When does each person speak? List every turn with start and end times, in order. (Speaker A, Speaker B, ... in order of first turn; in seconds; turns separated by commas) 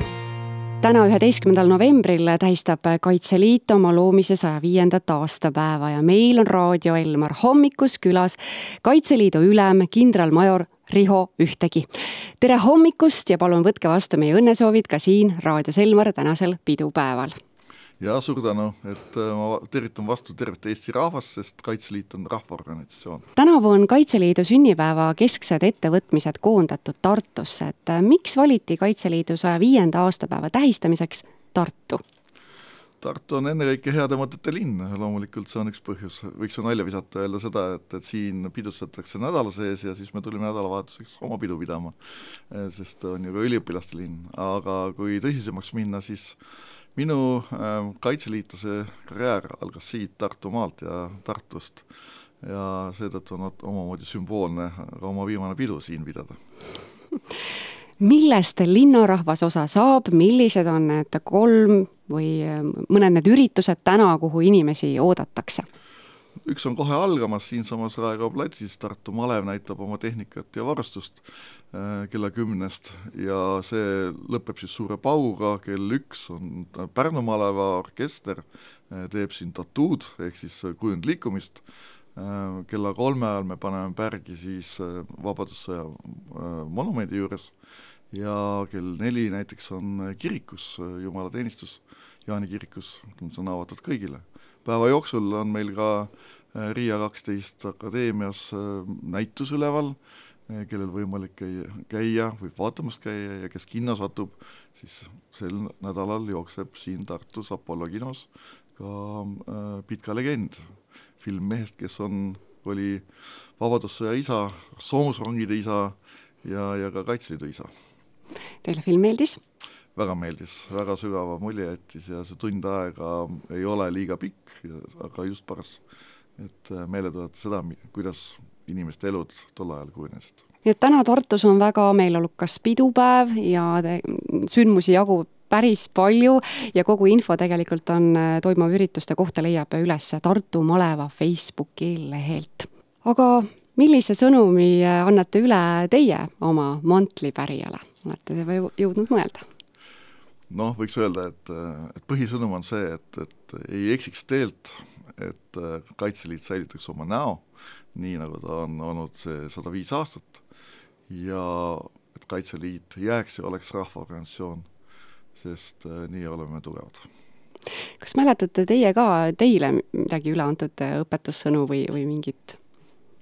Speaker A: 0.8-11.9, Speaker A: 12.4-17.4, Speaker B: 18.0-23.3, Speaker A: 23.4-32.0, Speaker B: 33.0-42.0, Speaker B: 42.5-46.4, Speaker B: 47.0-51.9, Speaker B: 52.4-56.4, Speaker A: 58.0-65.7, Speaker B: 66.4-81.6, Speaker B: 82.2-87.5, Speaker B: 88.1-100.0, Speaker B: 100.5-113.0, Speaker B: 113.6-117.7, Speaker A: 118.6-119.4, Speaker B: 120.0-125.8, Speaker B: 126.4-130.4, Speaker A: 130.7-149.4, Speaker B: 150.5-160.4, Speaker B: 161.1-164.7, Speaker B: 165.4-167.1, Speaker A: 168.0-172.6